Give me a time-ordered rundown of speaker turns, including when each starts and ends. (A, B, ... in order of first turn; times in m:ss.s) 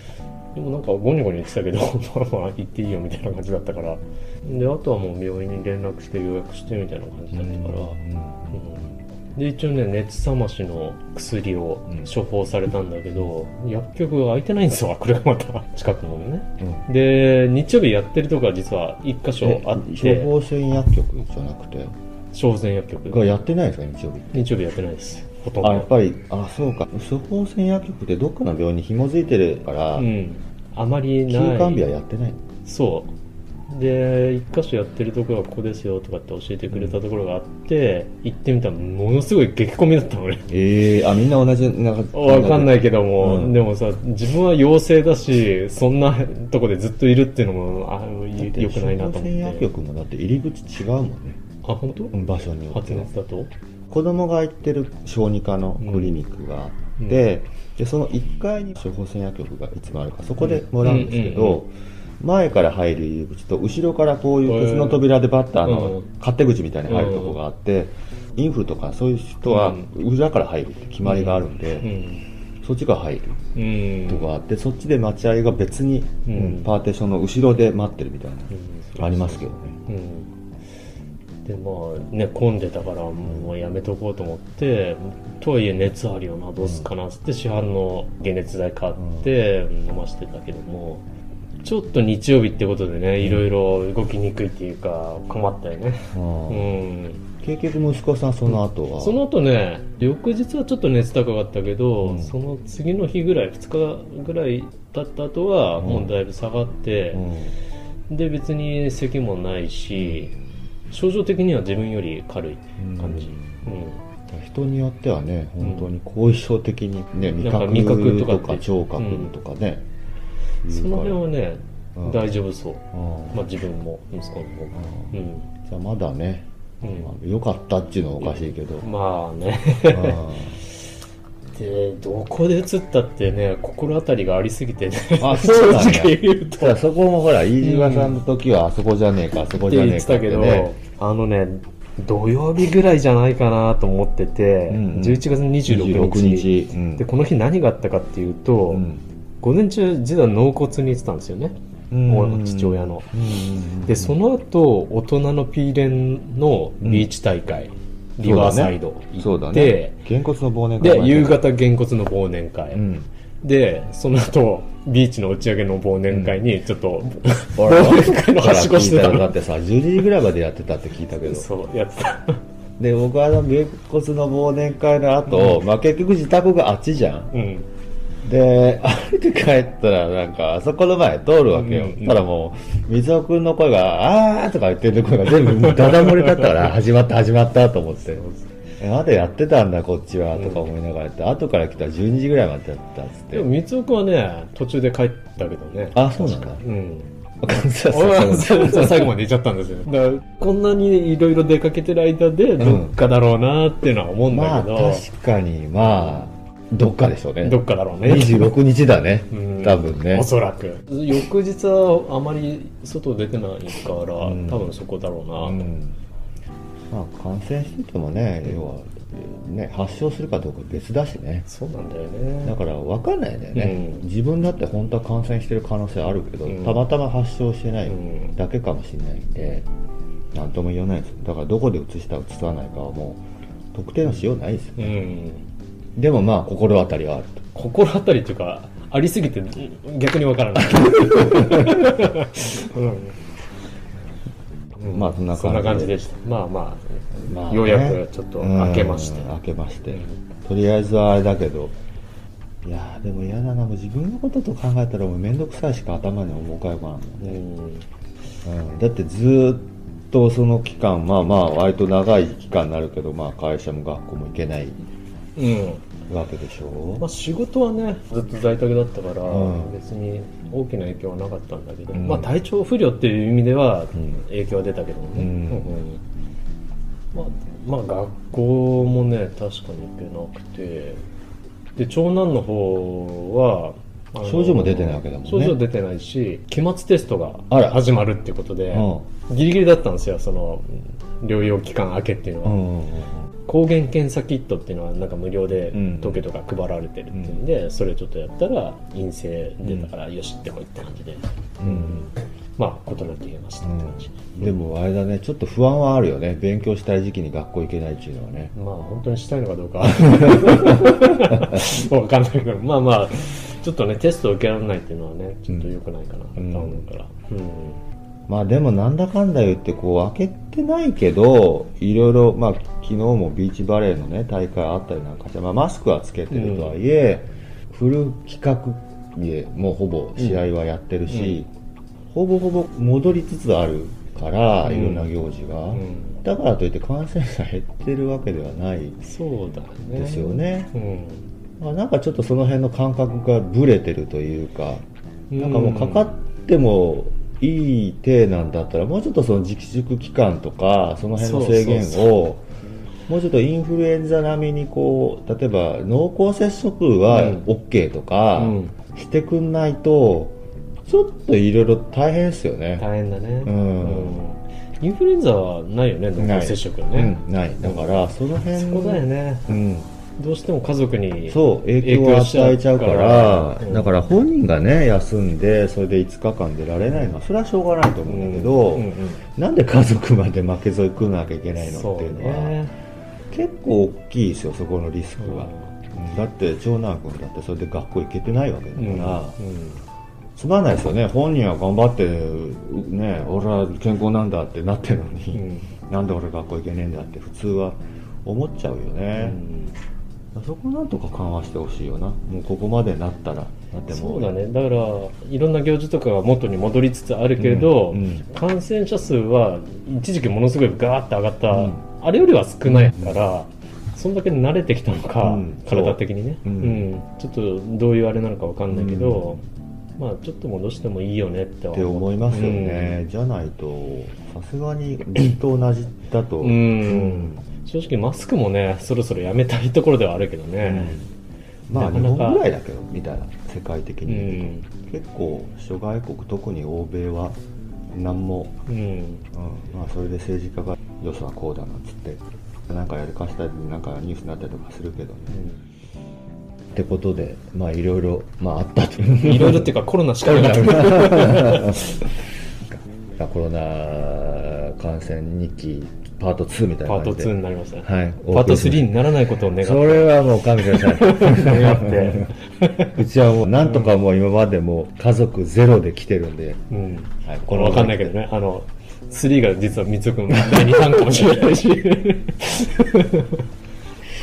0:00.5-0:08.0 A
0:07.3-0:08.8 B
0:08.5-0:20.3 A
0:19.4-0:21.9 B
0:22.3-0:23.3 A
0:23.1-0:24.5 B
0:24.3-0:25.9 A
0:25.6-0:30.1 B
0:29.9-0:31.9 A
0:31.3-0:32.4 B
0:32.6-0:33.1 A
0:33.7-0:40.5 A
0:36.7-0:37.0 B
0:40.5-0:43.6 B
0:42.1-0:49.7 A
0:48.4-0:51.4 B
0:51.6-0:52.2 A
0:52.1-0:53.1 B
0:52.7-0:53.5 A
0:53.9-1:11.9 B
0:55.8-0:56.2 A
1:00.4-1:01.6 A
1:04.4-1:05.0 A
1:05.6-1:06.1 A
1:06.9-1:07.4 A
1:09.4-1:09.9 A
1:11.0-1:12.2 A
1:12.6-1:13.4 B
1:13.5-1:14.3 A
1:14.0-1:19.8 B
1:16.2-1:16.7 A
1:18.5-1:20.3 A
1:21.4-1:31.0 A
1:26.6-1:26.9 B
1:29.0-1:29.3 B
1:31.6-1:37.2 A
1:36.1-1:36.7 B
1:37.4-1:39.2 B
1:38.5-1:47.2 A
1:42.0-1:42.4 B
1:45.8-1:46.1 B
1:47.1-1:47.6 B
1:48.1-1:50.3 A
1:50.9-1:54.0 A
1:52.8-1:53.7 B
1:54.3-1:59.8 B
1:55.6-1:55.9 A
1:57.4-1:59.3 A
2:00.6-2:01.2 B
2:00.7-2:05.4 A
2:02.0-2:02.3 B
2:02.9-2:03.4 B
2:04.7-2:08.9 B
2:06.8-2:07.1 A
2:08.2-2:10.7 A
2:09.9-2:10.6 B
2:11.5-2:16.8 A
2:15.2-2:20.7 B
2:17.6-2:18.2 A
2:19.6-2:28.8 A
2:24.7-2:27.0 B
2:28.7-2:29.0 B
2:29.4-2:31.5 A
2:31.9-2:34.2 B
2:32.0-2:33.1 A
2:33.8-2:40.0 A
2:36.8-2:37.1 B
2:38.2-2:41.5 B
2:40.8-2:42.8 A
2:42.7-2:43.1 B
2:43.4-2:49.4 A
2:46.1-2:46.4 B
2:47.6-2:51.5 B
2:51.3-2:52.4 A
2:52.8-2:57.3 B
2:55.3-2:55.6 A
2:57.3-2:57.7 A
2:58.2-3:08.2 B
3:01.5-3:02.2 A
3:05.6-3:06.7 A
3:08.0-3:08.5 A
3:08.8-3:13.5 B
3:10.4-3:10.6 A
3:13.3-3:17.1 A
3:15.9-3:16.6 B
3:17.4-3:19.1 B
3:17.9-3:25.0 A
3:22.6-3:23.0 B
3:24.3-3:30.3 B
3:25.8-3:26.2 A
3:27.4-3:28.5 A
3:29.3-3:35.7 A
3:34.2-3:34.7 B
3:35.4-3:36.0 B
3:36.9-3:41.4 B
3:41.5-3:42.6 A
3:42.4-3:49.6 B
3:43.5-3:44.0 A
3:46.5-3:46.8 A
3:47.9-3:48.3 A
3:50.3-3:53.2 B
3:53.7-3:55.0 B
3:54.8-3:55.4 A
3:56.0-3:57.4 B
3:57.5-4:03.1 A
4:01.1-4:01.8 B
4:04.8-4:09.3 A
4:04.9-4:05.9 B
4:07.2-4:11.8 B
4:09.9-4:10.2 A
4:12.6-4:17.4 B
4:17.2-4:17.8 A
4:18.4-4:24.8 B
4:25.4-4:25.8 A
4:26.1-4:27.0 B
4:27.0-4:36.0 A
4:29.2-4:29.7 B
4:31.9-4:32.4 B
4:35.1-4:35.8 B
4:37.1-4:41.0 A
4:41.8-4:52.6 A
4:44.2-4:45.6 B
4:47.5-4:47.8 B
4:48.7-4:49.0 B
4:52.4-4:53.3 B
4:53.5-5:04.6 A
4:55.7-4:56.3 B
4:57.1-4:57.4 B
4:59.6-4:59.9 B
5:01.6-5:02.1 B
5:03.6-5:08.5 B
5:08.5-5:17.8 A
5:10.1-5:11.6 B
5:16.4-5:16.8 B
5:18.3-5:31.5 B
5:26.3-5:26.8 A
5:30.2-5:30.4 A
5:31.1-5:31.4 A
5:32.1-5:39.0 B
5:34.6-5:35.1 A
5:35.7-5:36.2 A
5:39.0-5:41.2 A
5:39.9-5:40.7 B
5:41.6-5:44.8 B
5:45.3-5:46.1 A
5:45.3-5:52.4 B
5:51.2-5:52.1 A
5:53.1-6:02.8 B
5:57.1-5:57.4 A
5:58.4-5:58.7 A
6:02.8-6:09.5 A
6:03.4-6:04.2 B
6:06.2-6:09.9 B
6:10.2-6:13.9 A
6:11.3-6:22.6 B
6:18.1-6:19.2 A
6:21.6-6:22.7 A
6:23.3-6:29.4 B
6:25.2-6:25.7 A
6:28.8-6:29.8 A
6:30.4-6:39.4 B
6:35.3-6:35.7 A
6:39.2-6:39.8 A
6:40.3-6:44.3 B
6:43.9-6:59.4 A
6:47.4-6:48.2 B
6:51.5-6:51.8 B
6:52.6-6:53.3 B
6:55.2-6:56.9 B
6:58.7-6:59.4 B
7:00.0-7:03.0 A
7:01.7-7:07.4 B
7:06.4-7:11.0 A
7:10.6-7:11.1 B
7:11.7-7:17.4 B
7:11.7-7:12.4 A
7:14.1-7:14.6 A
7:17.9-7:18.5 B
7:18.7-7:19.2 A
7:19.3-7:25.3 B
7:25.3-7:25.6 A
7:26.7-7:32.0 B
7:29.1-7:32.0 A
7:32.7-7:38.9 B
7:36.8-7:43.0 A
7:39.6-7:46.6 B
7:43.6-7:43.9 A
7:46.7-7:53.4 A
7:47.2-7:48.1 B
7:50.5-7:50.9 B